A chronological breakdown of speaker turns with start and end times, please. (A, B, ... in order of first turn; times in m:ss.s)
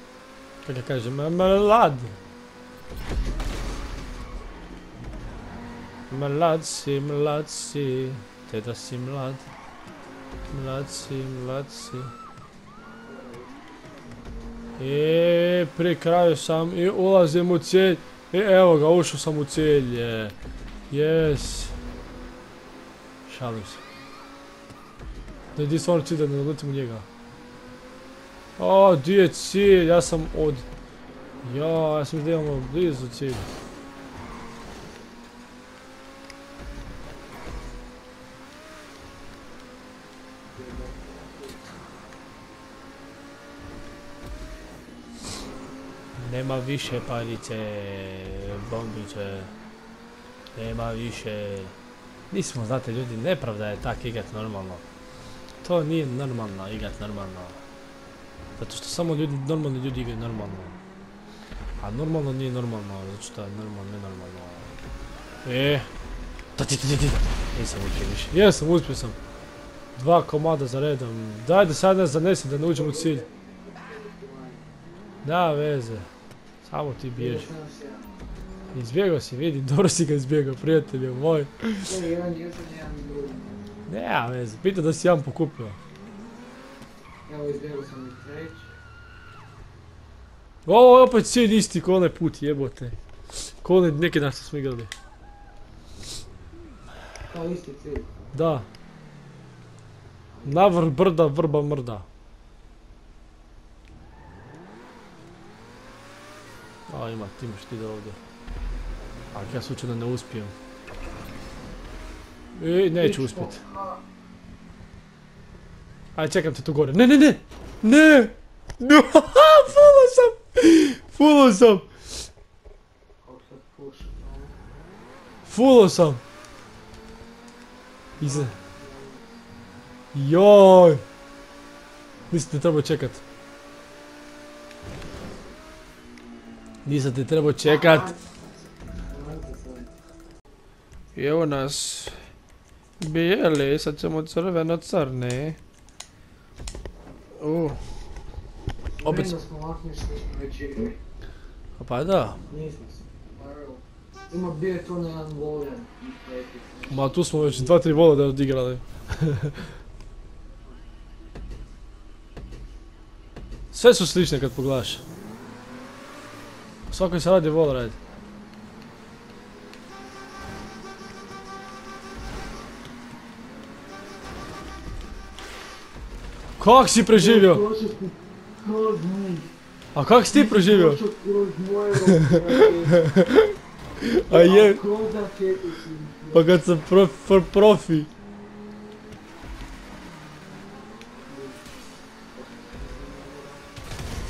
0:00.6-0:02.2 A
0:06.1-0:09.5 A
0:10.5-0:12.1 A
0:12.8-0:14.2 B
0:14.8-0:20.4 A
0:20.9-0:21.8 A
0:23.3-0:23.8 A
0:25.6-0:27.1 A
0:28.6-0:30.6 A
0:31.4-0:33.5 A
0:40.5-0:41.8 B
0:46.2-0:49.5 A
0:50.6-0:51.8 A
0:52.3-0:54.8 A
0:55.6-0:57.6 A
0:58.6-1:00.8 A
1:01.8-1:04.7 A
1:05.4-1:05.9 A
1:06.6-1:09.2 A
1:10.0-1:13.2 A
1:12.7-1:14.6 B
1:15.2-1:16.1 A
1:16.6-1:17.5 A
1:17.2-1:18.1 B
1:18.7-1:21.9 A
1:21.8-1:23.7 B
1:23.9-1:25.8 A
1:27.3-1:28.8 B
1:30.7-1:33.0 A
1:33.6-1:34.9 A
1:37.3-1:38.1 B
1:38.3-1:38.7 A
1:40.3-1:40.8 B
1:40.4-1:42.1 A
1:46.9-1:48.2 A
1:49.3-1:50.5 A
1:52.6-1:53.6 A
1:53.0-1:54.0 B
1:56.2-2:01.9 A
2:03.2-2:04.6 B
2:05.5-2:06.2 A
2:08.2-2:08.5 A
2:08.2-2:09.3 B
2:10.1-2:11.0 A
2:12.3-2:13.2 A
2:16.8-2:18.1 A
2:17.6-2:19.9 B
2:21.2-2:22.2 A
2:23.0-2:25.6 A
2:27.4-2:27.8 A
2:28.9-2:31.0 B
2:29.0-2:29.3 A
2:31.8-2:32.4 A
2:32.5-2:37.9 B
2:36.9-2:39.6 A
2:43.7-2:45.0 A
2:46.9-2:48.0 A
2:56.6-2:57.6 A
2:57.1-2:59.5 B
3:00.0-3:01.0 A
3:00.3-3:03.0 B
3:02.1-3:04.8 A
3:04.3-3:06.6 B
3:06.3-3:08.1 A
3:11.2-3:11.6 B
3:12.3-3:13.7 B